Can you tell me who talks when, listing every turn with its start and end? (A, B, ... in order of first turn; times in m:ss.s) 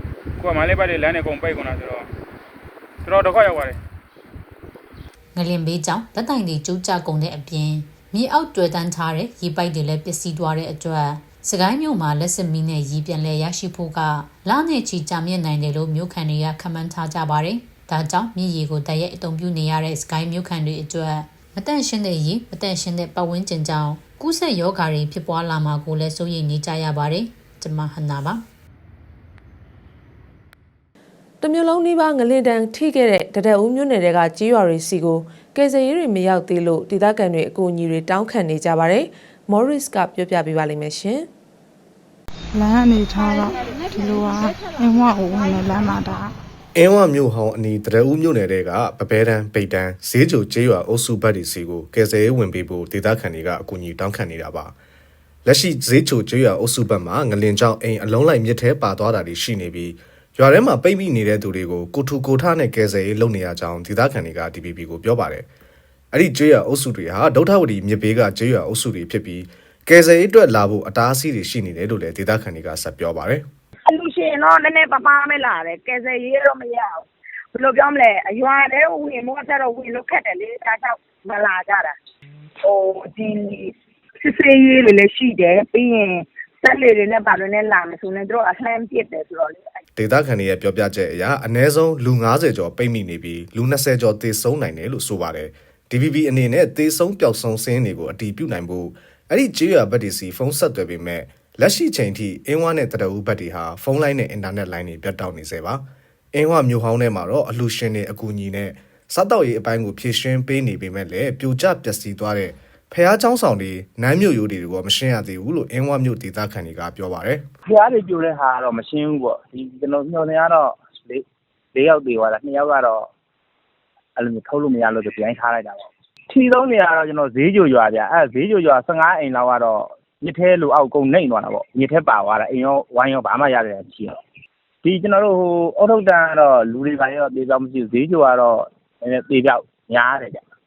0:00.4-0:02.1 A
0:03.0-0:03.8 A
0:05.4-0:28.4 B
0:31.4-0:41.3 C
0:42.5-0:46.3 D
0:46.8-0:54.7 E
0:55.4-1:05.4 E
1:06.1-1:13.4 E
1:13.8-1:22.0 F
1:22.6-1:29.8 F
1:30.0-1:45.8 E
1:46.3-1:57.4 E
1:57.7-2:01.2 G
2:01.8-2:03.1 G
2:04.2-2:14.2 G
2:14.8-2:20.4 G